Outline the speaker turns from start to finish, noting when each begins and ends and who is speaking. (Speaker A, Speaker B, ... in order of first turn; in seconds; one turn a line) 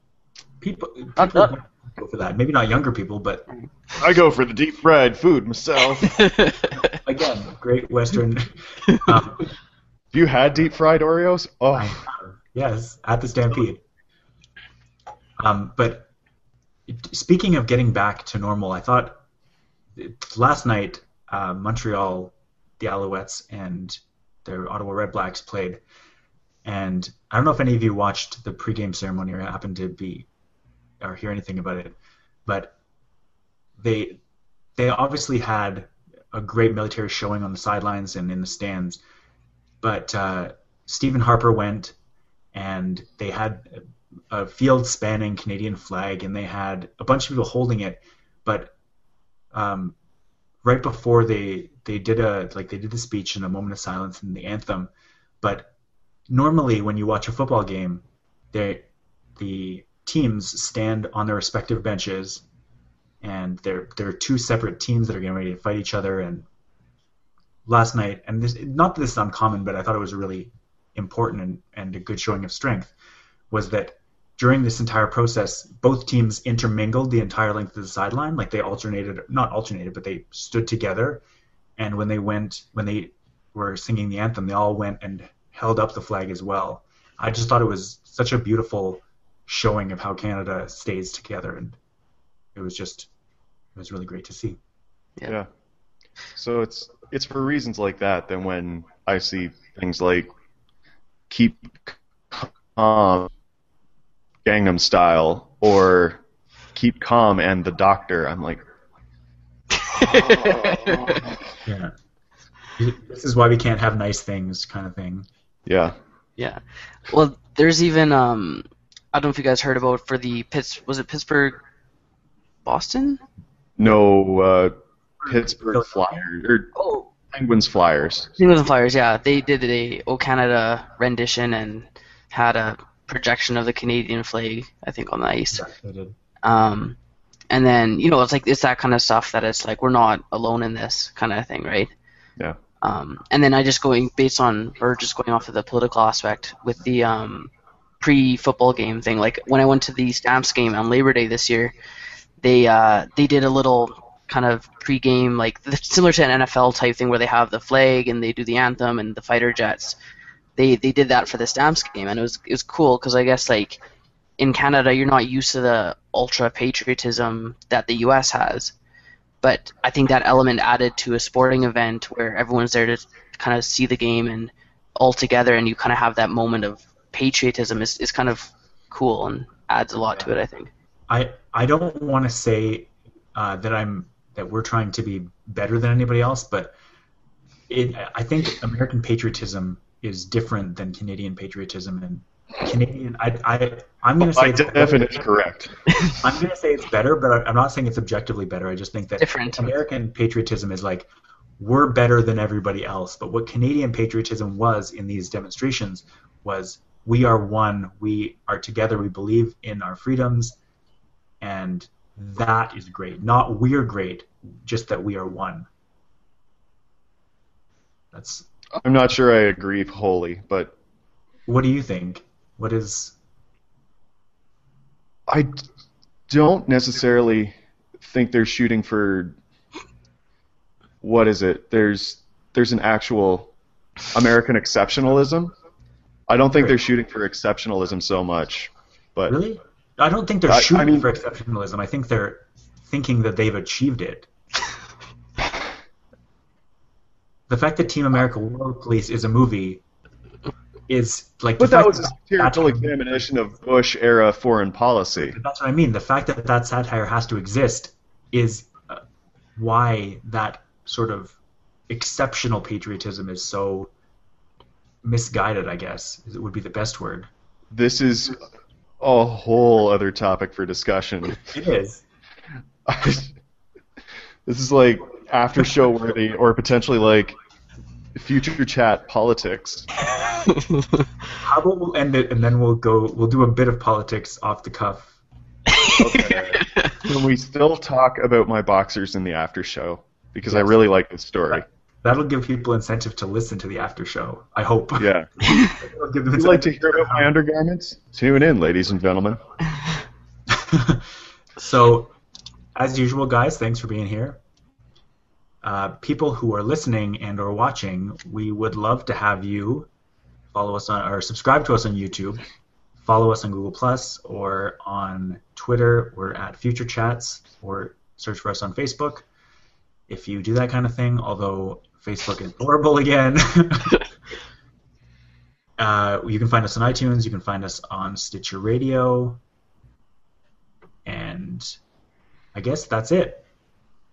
Speaker A: 0.6-3.4
Speaker B: 1.2-1.5
Speaker C: 4.0-6.2
Speaker B: 6.0-6.8
Speaker A: 7.0-9.4
Speaker C: 10.1-12.0
Speaker A: 11.8-13.8
Speaker A: 15.4-16.1
Speaker A: 16.9-19.2
Speaker A: 20.0-25.8
Speaker A: 26.6-30.3
Speaker A: 31.0-32.7
Speaker A: 33.8-34.2
Speaker A: 34.8-39.0
Speaker A: 39.8-42.0
Speaker A: 42.5-48.7
Speaker A: 49.5-50.0
Speaker A: 50.6-55.7
Speaker A: 56.3-62.4
Speaker A: 63.2-66.5
Speaker A: 67.7-72.9
Speaker A: 73.5-81.2
Speaker A: 81.8-91.8
Speaker A: 92.5-93.1
Speaker A: 93.8-94.6
Speaker C: 96.3-100.3
Speaker C: 101.3-103.3
Speaker C: 104.5-106.2
Speaker C: 106.7-108.6
Speaker B: 109.8-111.2
Speaker C: 109.9-111.5
Speaker A: 111.7-111.9
Speaker A: 112.8-115.3
Speaker C: 115.7-116.0
Speaker B: 116.4-121.6
Speaker B: 122.7-123.2
Speaker C: 123.8-124.7
Speaker A: 125.2-126.3
Speaker C: 125.3-126.7
Speaker B: 126.8-127.1
Speaker C: 127.3-128.3
Speaker B: 128.4-135.7
Speaker A: 135.5-136.2
Speaker B: 136.4-137.0
Speaker B: 137.5-141.9
Speaker B: 142.8-151.7
Speaker B: 152.4-160.0
Speaker B: 160.6-163.8
Speaker B: 164.4-168.7
Speaker B: 169.4-180.7
Speaker A: 181.1-186.7
Speaker A: 187.7-195.3
Speaker C: 194.2-195.7
Speaker A: 196.2-201.1
Speaker B: 199.2-199.7
Speaker A: 201.6-210.6
Speaker A: 211.4-215.7
Speaker A: 218.1-218.5
Speaker C: 218.8-220.7
Speaker A: 221.5-223.2
Speaker C: 226.3-229.4
Speaker C: 231.0-233.5
Speaker C: 234.1-235.5
Speaker C: 236.3-239.4
Speaker A: 239.3-244.3
Speaker C: 240.5-241.1
Speaker A: 247.5-249.8
Speaker A: 250.9-253.2
Speaker C: 251.6-255.4
Speaker A: 255.3-259.0
Speaker A: 259.6-261.4
Speaker A: 261.9-263.9
Speaker A: 265.0-267.3
Speaker C: 267.7-268.4
Speaker C: 269.0-271.4
Speaker A: 271.5-272.0
Speaker C: 272.9-273.3
Speaker C: 274.5-277.4
Speaker C: 278.1-279.9
Speaker B: 280.5-280.9
Speaker A: 281.4-285.1
Speaker B: 285.8-286.9
Speaker C: 286.0-291.6
Speaker A: 290.5-290.8
Speaker A: 291.5-297.3
Speaker C: 295.0-295.3
Speaker B: 295.5-295.7
Speaker C: 296.4-299.4
Speaker A: 300.5-301.0
Speaker A: 301.6-302.1
Speaker A: 302.8-304.4
Speaker A: 305.6-309.9
Speaker A: 310.5-312.4
Speaker A: 313.0-319.3
Speaker A: 320.1-324.0
Speaker A: 325.8-329.4
Speaker A: 331.1-331.8
Speaker A: 332.5-333.4